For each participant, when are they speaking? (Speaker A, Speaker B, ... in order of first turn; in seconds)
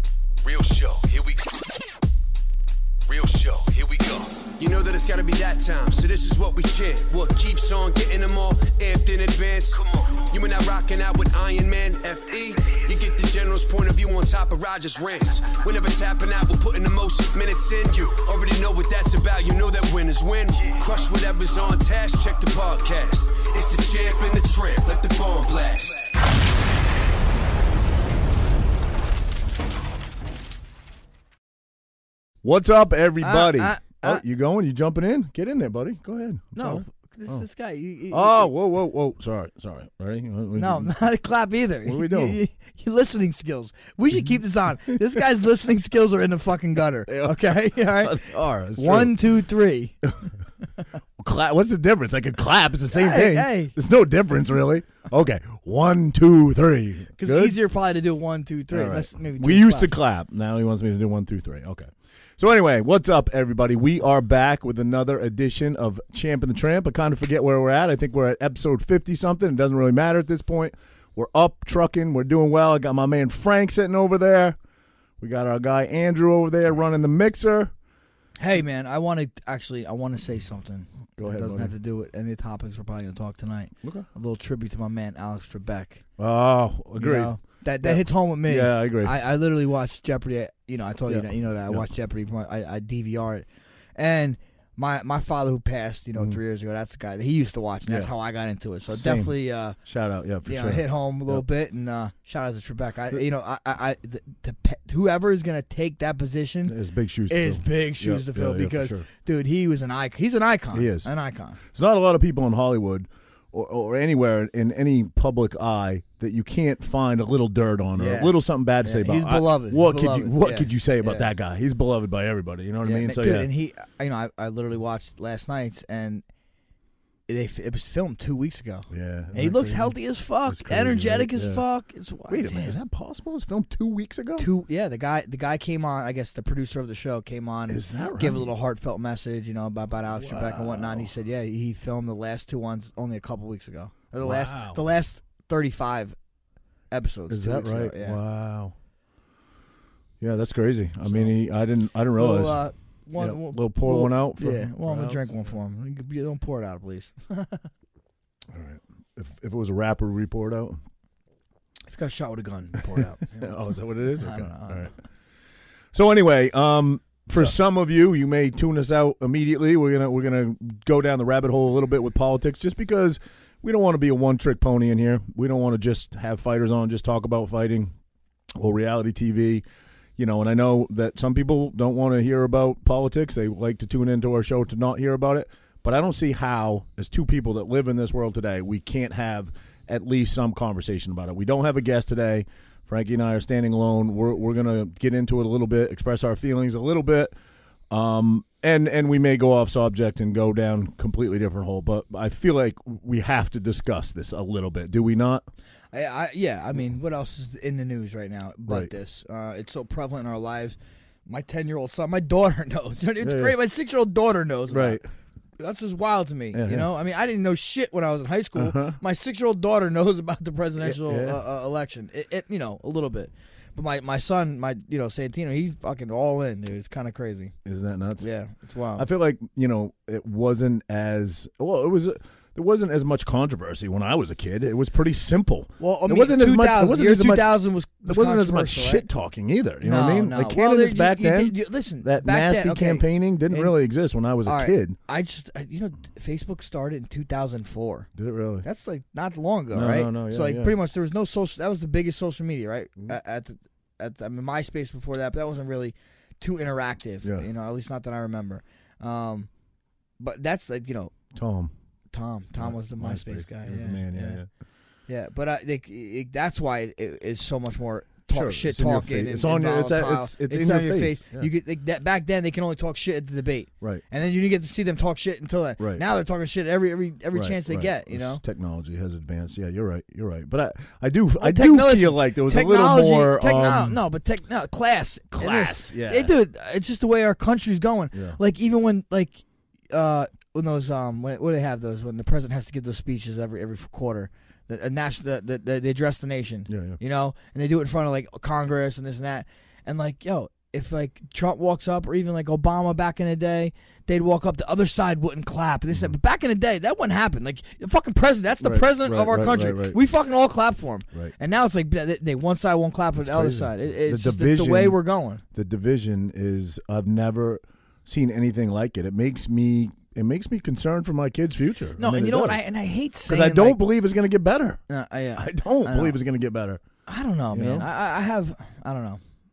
Speaker A: 0.4-1.5, 3.1-26.1
Speaker B: 32.4-37.4, 38.1-40.9, 41.9-42.4, 47.1-49.2, 51.2-57.5, 58.7-74.6, 75.2-77.7, 81.2-81.7, 86.2-89.1, 91.1-91.9, 98.9-99.3, 99.8-101.4, 106.7-109.0, 110.7-111.1, 111.7-123.5, 128.9-129.9, 130.4-131.6, 132.3-134.5, 137.7-138.5, 140.1-141.1, 144.2-144.8, 147.3-148.7, 150.2-152.7, 153.2-155.2, 158.5-160.8, 163.3-164.9, 165.9-177.9, 178.6-179.6, 180.2-197.3, 197.9-205.4, 208.6-208.9, 213.2-213.5, 214.7-215.1, 216.5-216.9, 218.6-219.0, 220.8-221.4, 227.6-228.2, 229.0-245.0, 248.2-248.7, 249.7-250.7, 261.3-261.7, 262.6-264.5, 268.3-271.5, 275.8-276.0, 277.3-284.0, 285.3-286.3, 288.1-288.4, 296.7-297.0, 308.6-310.0, 313.2-315.0, 315.5-322.6, 323.2-324.8, 325.4-326.8, 327.5-327.9
Speaker C: 33.2-34.2, 36.5-38.5, 40.5-50.0, 52.9-53.7, 57.2-60.0, 78.4-86.0, 87.0-99.8, 100.5-106.7, 107.3-111.6, 117.9-121.3, 122.8-126.2, 127.3-132.8, 134.4-146.2, 146.9-148.2, 151.1-151.3, 152.2-157.7, 161.9-164.9, 205.9-215.0, 215.6-227.5, 228.2-229.1, 235.8-239.1, 239.8-243.7, 244.4-248.1, 248.6-259.5, 260.2-261.1, 262.1-264.4, 265.1-278.4, 281.4-315.4, 322.0-323.8, 324.9-326.2, 327.1-329.2